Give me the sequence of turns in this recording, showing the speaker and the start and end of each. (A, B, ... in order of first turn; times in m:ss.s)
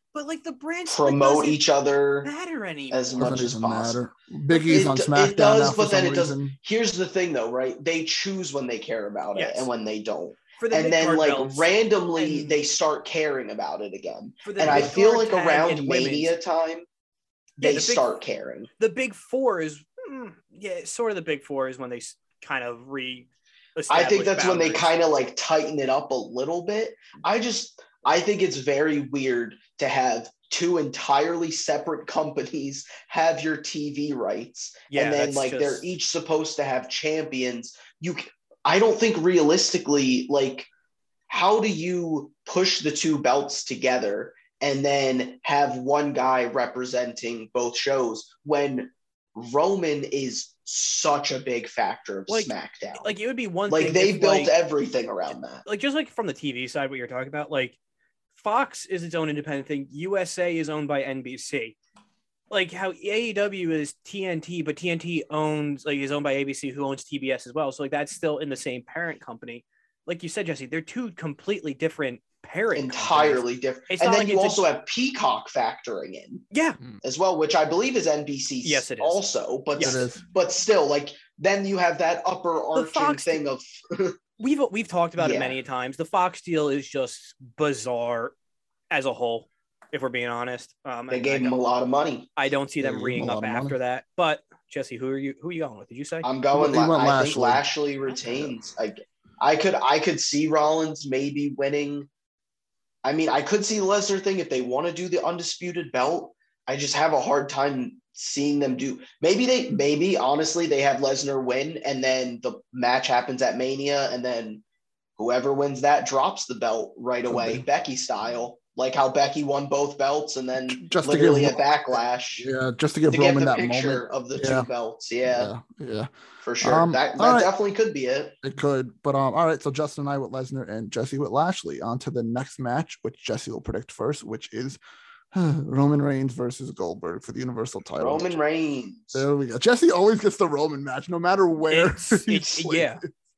0:00.1-0:01.6 A
0:00.9-0:02.3 B
0:02.2-0:03.4 A
0:02.9-0:04.0 B
0:03.2-0:06.6 C
0:04.6-0:16.8 B
0:09.3-0:09.7 A
0:10.6-0:12.6 A
0:14.4-0:16.3 A
0:14.6-0:14.9 C
0:17.6-0:18.7 B
0:17.6-0:18.1 A
0:18.8-0:24.9 A
0:23.9-0:40.7 B
0:34.9-0:35.9 A
0:41.3-0:53.2 B
0:52.3-0:54.5 A
0:53.7-0:55.6 B
0:55.6-0:57.8 A
0:58.3-1:01.8 A
1:02.5-1:14.6 A
1:12.7-1:16.4 B
1:16.5-1:16.8 A
1:17.0-1:24.2 B
1:18.6-1:19.2 A
1:19.8-1:20.0 A
1:19.8-1:20.2 C
1:22.7-1:23.4 A
1:24.4-1:28.3 A
1:25.2-1:25.6 B
1:28.9-1:31.5 A
1:31.1-1:32.3 B
1:32.4-1:36.3 A
1:32.8-1:33.8 C
1:36.2-1:42.1 B
1:36.5-1:37.6 C
1:38.2-1:38.5 C
1:43.0-1:54.6 B
1:55.2-2:02.5 B
1:57.3-1:57.6 C
2:00.7-2:04.7 C
2:03.1-2:05.5 B
2:05.3-2:07.5 C
2:06.4-2:08.4 B
2:08.4-2:14.8 C
2:15.3-2:18.4 C
2:18.0-2:19.2 B
2:19.1-2:23.0 C
2:21.7-2:23.0 A